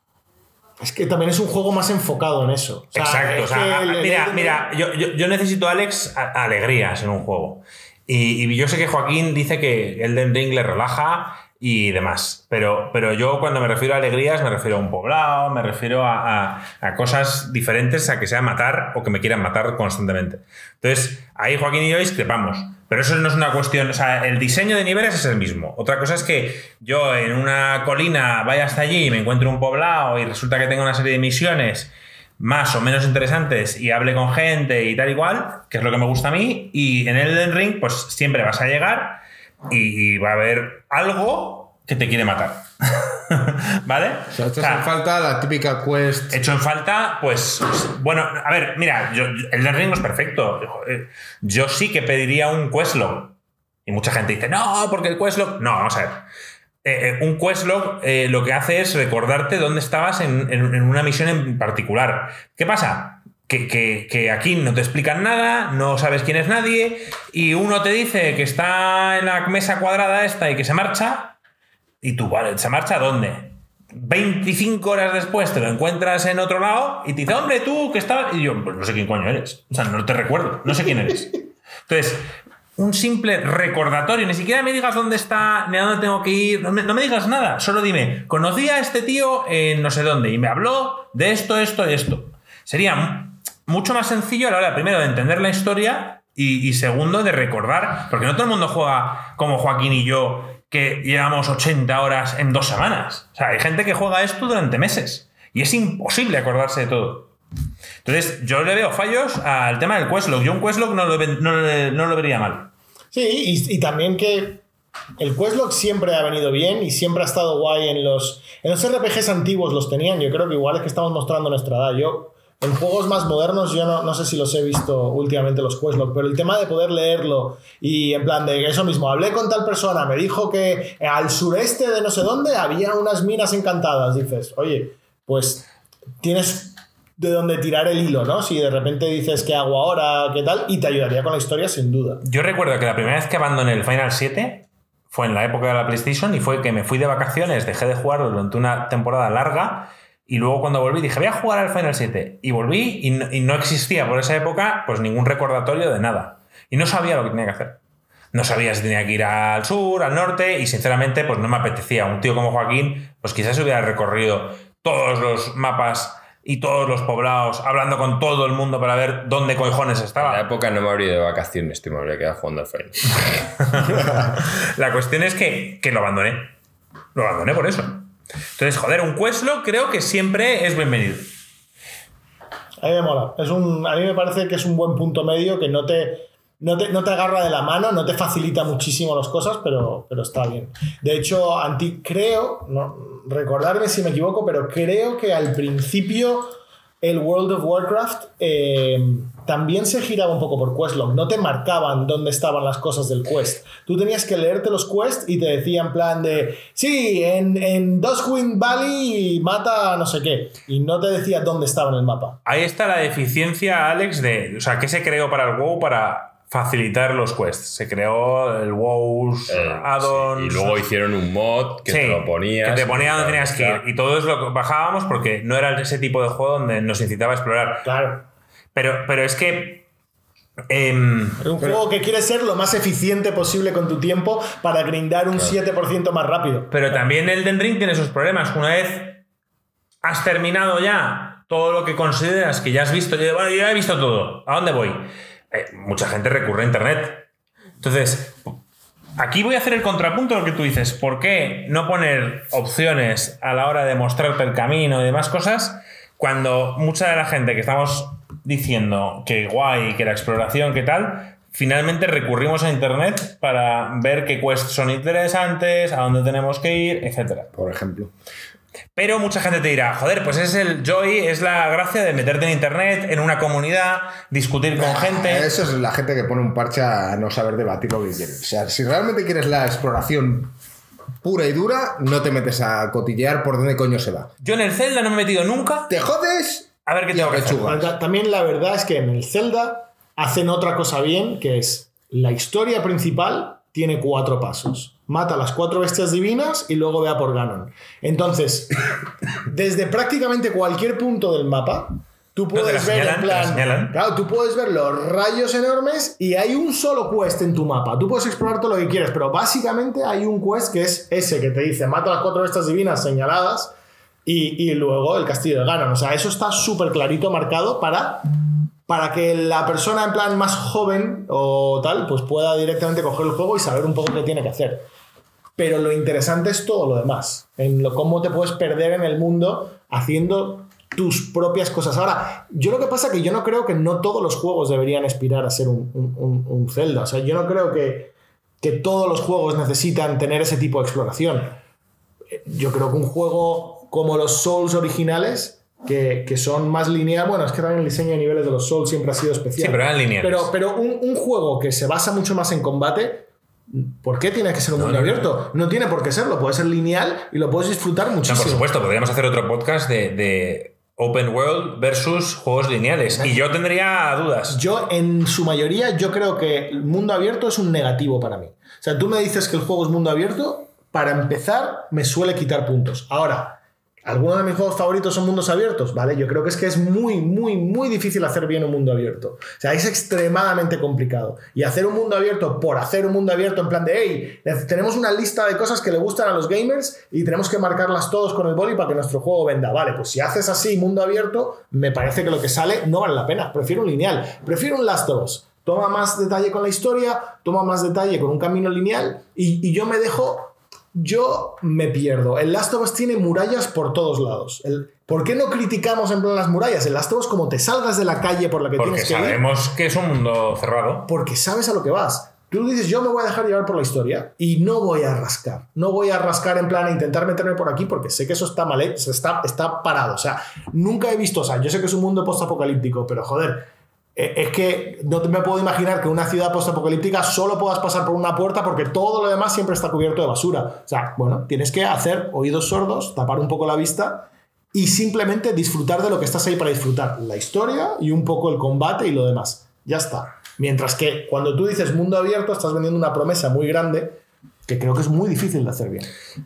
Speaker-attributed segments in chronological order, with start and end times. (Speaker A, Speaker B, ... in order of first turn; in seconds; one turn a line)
Speaker A: 0.8-4.6
Speaker B: 2.9-44.9
Speaker C: 44.3-46.4
Speaker B: 46.3-53.3
Speaker B: 53.9-56.2
Speaker B: 56.8-71.4
Speaker B: 72.0-107.3
Speaker B: 108.0-112.7
Speaker A: 113.1-114.6
Speaker A: 115.2-135.7
Speaker A: 136.2-142.2
Speaker B: 142.2-157.8
Speaker B: 158.3-170.4
Speaker D: 170.2-174.2
Speaker B: 173.7-176.5
Speaker B: 177.1-181.3
Speaker A: 182.8-212.4
Speaker B: 212.4-220.8
Speaker D: 219.5-223.8
Speaker B: 221.9-227.9
Speaker A: 227.8-228.2
Speaker B: 228.7-229.8
Speaker B: 230.7-231.4
Speaker A: 231.4-236.7
Speaker B: 236.7-239.2
Speaker B: 240.0-247.3
Speaker B: 247.8-248.6
Speaker B: 249.2-267.5
Speaker C: 267.5-268.1
Speaker B: 268.9-275.5
Speaker C: 274.7-280.5
Speaker C: 281.2-284.3
Speaker B: 284.4-285.9
Speaker C: 285.9-287.9
Speaker B: 286.9-287.7
Speaker A: 287.5-298.7
Speaker A: 299.4-313.7
Speaker B: 302.5-303.9
Speaker A: 314.2-318.3
Speaker A: 318.9-324.9
Speaker A: 325.6-341.6
Speaker A: 342.3-358.6
Speaker B: 349.6-350.5
Speaker B: 354.8-355.3
Speaker B: 358.2-364.6
Speaker A: 364.5-409.4
Speaker B: 408.8-411.1
Speaker A: 411.1-446.1